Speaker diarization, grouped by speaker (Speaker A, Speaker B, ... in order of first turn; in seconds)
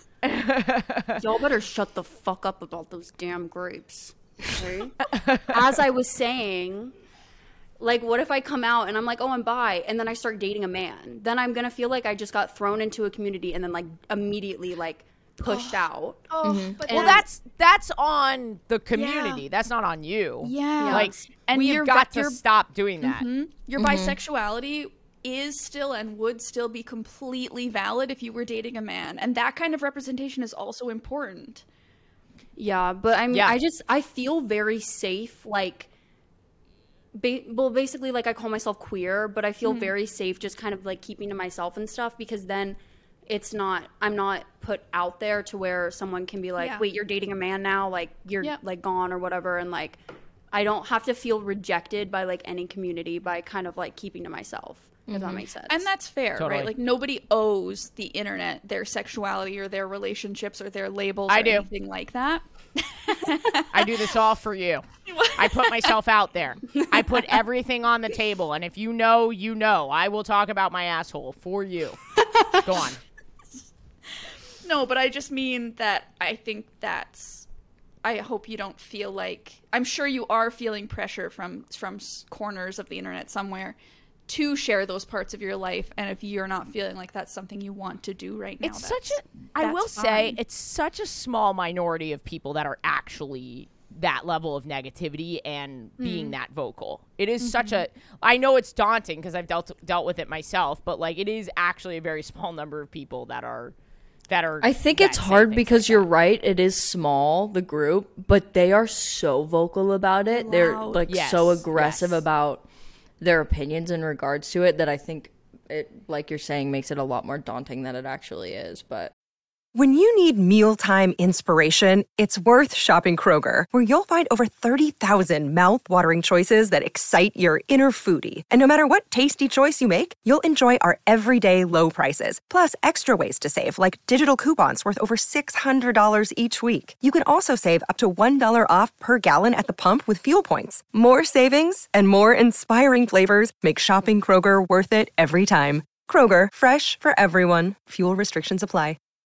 Speaker A: 0.2-1.2, 5.1-5.5, 16.9-23.3, 56.4-56.7, 61.3-61.7, 63.7-64.8, 65.4-73.0, 88.6-103.7, 104.3-106.1, 111.1-112.2
Speaker B: 1.2-5.0, 5.5-6.9, 7.8-16.3, 16.8-17.2, 20.8-21.3, 32.6-35.9, 37.1-50.0, 50.5-55.9
Speaker C: 15.4-17.2, 18.9-19.4, 20.4-22.4, 23.0-31.6, 39.6-39.9, 46.6-46.8, 55.7-63.9, 65.1-65.9, 74.6-77.5, 78.0-83.8, 84.3-90.4, 96.0-96.4, 97.4-97.8, 110.3-111.0
Speaker D: 16.4-16.8, 23.8-24.2, 104.6-112.7, 113.2-119.1
Speaker E: 119.7-149.0